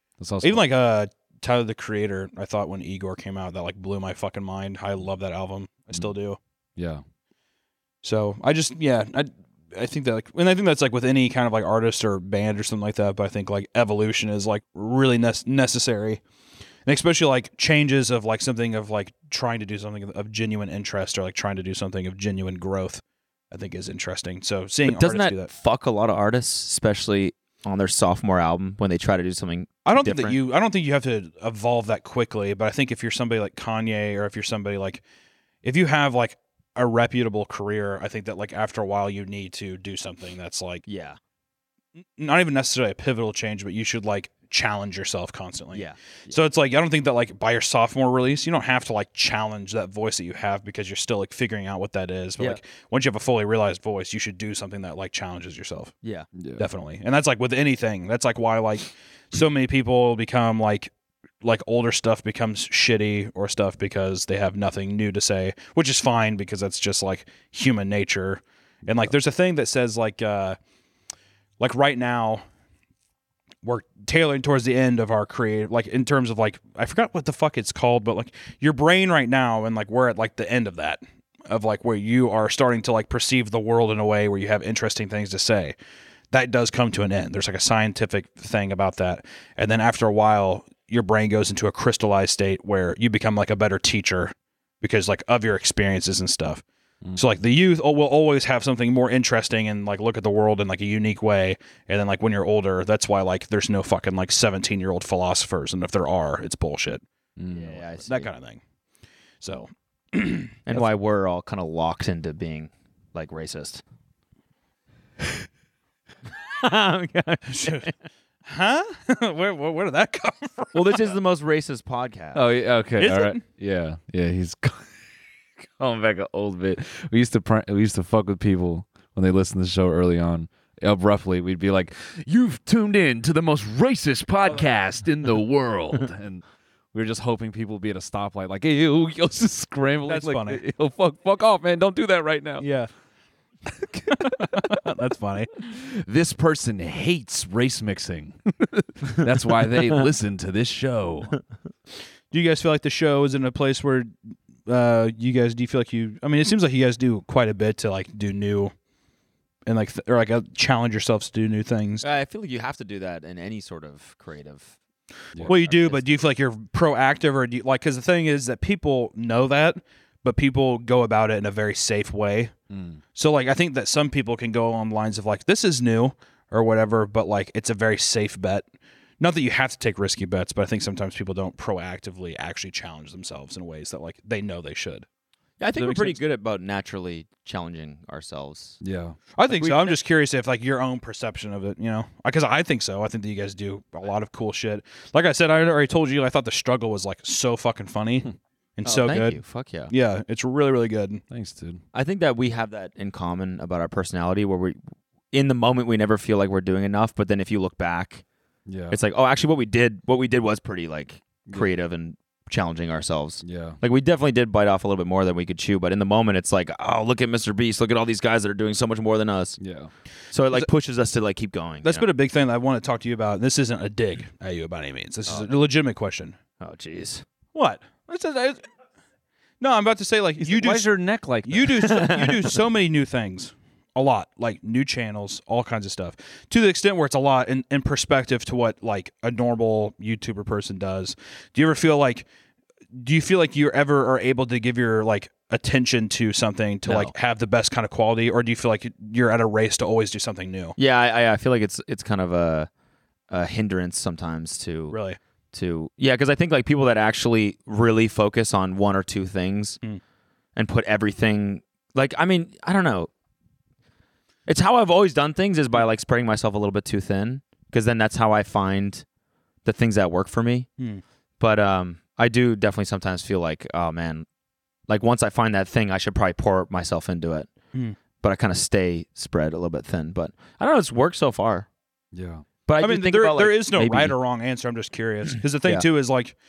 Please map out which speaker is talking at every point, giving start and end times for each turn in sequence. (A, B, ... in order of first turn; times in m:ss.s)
0:00.2-0:00.6 A
0:00.4-0:06.4 B
0:06.8-0:07.0 A
0:08.0-0:16.2 B
0:16.9-0:25.5 B
0:24.9-0:30.4 C
0:29.9-0:35.0 B
0:35.6-0:40.8 B
0:40.9-0:41.2 C
0:42.2-0:55.9 B
0:45.7-0:46.4 C
0:56.4-0:56.7 A
0:56.6-1:00.9 B
1:01.4-1:10.6 B
1:11.6-1:12.4 B
1:13.6-1:25.8 B
1:26.3-1:36.6 B
1:37.2-1:47.0 B
1:47.4-1:47.8 A
1:47.5-1:48.3 C
1:47.9-1:48.6 B
1:49.4-1:50.9 B
1:50.7-1:53.8 C
1:56.5-1:57.9 C
1:57.5-1:57.9 B
1:58.4-2:01.2 B
2:00.7-2:02.5 C
2:02.3-2:04.9 A
2:03.0-2:03.4 B
2:05.6-2:22.7 A
2:20.1-2:20.6 B
2:22.6-2:22.9 B
2:23.7-2:24.8 A
2:24.2-2:25.5 B
2:25.6-2:31.4 A
2:32.3-2:34.1 B
2:34.7-2:38.7 B
2:39.6-2:42.0 B
2:42.0-2:44.8 C
2:45.4-2:52.5 B
2:45.4-2:46.0 C
2:52.7-2:53.0 A
2:53.1-2:58.6 B
2:59.2-3:05.0 B
3:05.6-3:08.8 C
3:05.8-3:06.1 B
3:05.8-3:06.1 A
3:08.8-3:09.2 A
3:09.4-3:21.2 B
3:09.5-3:10.0 C
3:18.8-3:19.9 C
3:21.3-3:21.8 A
3:21.9-3:24.8 C
3:25.3-3:28.2 C
3:28.6-3:29.0 A
3:28.9-3:39.6 C
3:33.4-3:33.8 A
3:39.6-3:39.9 A
3:40.3-3:42.1 C
3:41.8-3:46.4 B
3:46.6-3:47.2 C
3:47.5-3:48.6 B
3:49.6-3:50.9 B
3:50.4-3:52.0 A
3:51.5-4:02.3 B
3:51.8-3:52.5 C
4:03.0-4:10.8 B
4:06.9-4:07.1 C
4:10.8-4:12.7 C
4:13.3-4:15.0 C
4:14.9-4:15.2 B
4:15.5-4:19.8 C
4:20.6-4:23.1 C
4:24.5-4:29.0 C
4:29.6-4:30.7 C
4:31.4-4:34.2 C
4:34.9-4:37.5 C
4:38.2-4:41.7 C
4:42.1-4:42.4 A
4:42.7-4:44.2 C
4:42.8-4:46.4 B